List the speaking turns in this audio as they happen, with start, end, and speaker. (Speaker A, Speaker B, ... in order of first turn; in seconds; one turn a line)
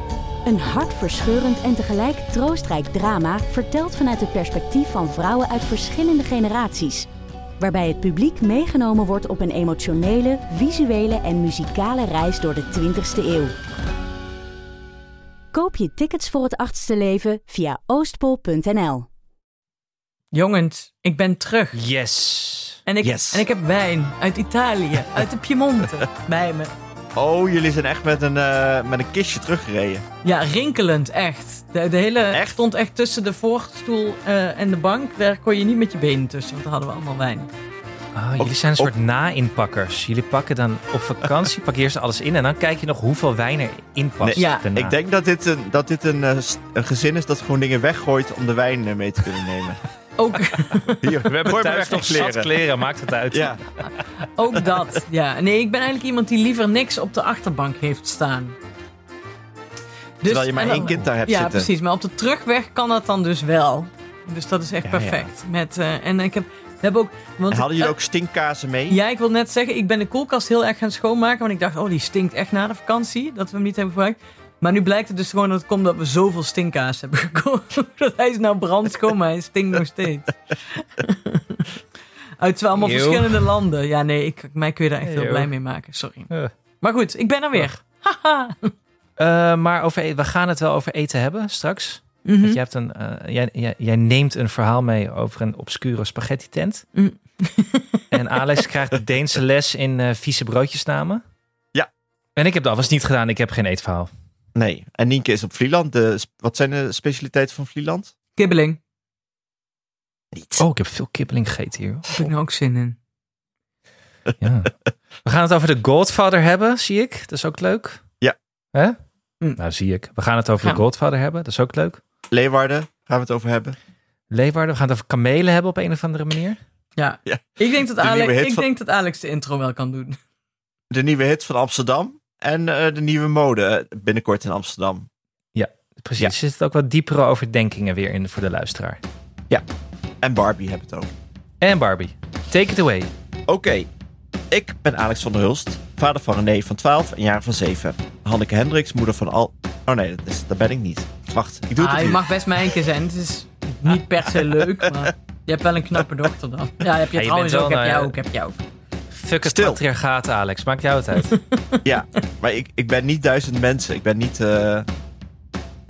Speaker A: 0.4-7.1
Speaker A: 7.6-13.5
Speaker A: 15.5-19.1
Speaker B: 20.3-21.8
Speaker C: 21.7-22.8
Speaker B: 22.9-26.7
Speaker D: 23.0-23.4
Speaker D: 27.1-30.0
Speaker B: 30.2-37.5
Speaker D: 32.3-32.6
Speaker C: 38.1-44.9
Speaker D: 38.4-38.9
Speaker D: 44.2-49.8
Speaker B: 44.4-44.6
Speaker B: 50.2-51.1
Speaker D: 51.0-52.5
Speaker C: 51.3-53.9
Speaker D: 53.3-53.6
Speaker B: 54.2-58.6
Speaker B: 60.2-67.9
Speaker D: 60.2-61.7
Speaker C: 60.7-61.1
Speaker D: 64.8-65.3
Speaker D: 67.5-69.0
Speaker B: 68.9-81.8
Speaker B: 82.4-86.3
Speaker C: 82.8-83.5
Speaker C: 85.0-85.5
Speaker B: 86.8-88.7
Speaker C: 89.2-96.8
Speaker B: 92.2-92.6
Speaker B: 96.9-98.0
Speaker C: 98.1-101.2
Speaker C: 102.3-104.1
Speaker D: 104.5-108.1
Speaker B: 108.4-108.8
Speaker D: 110.3-110.6
Speaker C: 110.6-112.2
Speaker B: 112.1-113.0
Speaker C: 114.4-114.7
Speaker C: 115.2-118.0
Speaker C: 119.6-122.0
Speaker D: 122.3-123.7
Speaker C: 124.3-126.6
Speaker B: 127.0-130.2
Speaker D: 127.2-128.7
Speaker D: 130.9-135.1
Speaker C: 135.5-139.0
Speaker D: 140.2-141.1
Speaker C: 141.6-143.1
Speaker D: 143.5-143.9
Speaker D: 144.5-152.7
Speaker B: 151.8-158.6
Speaker D: 154.4-155.1
Speaker C: 157.2-158.1
Speaker C: 159.1-161.4
Speaker D: 159.4-159.8
Speaker B: 161.2-161.8
Speaker D: 161.8-164.9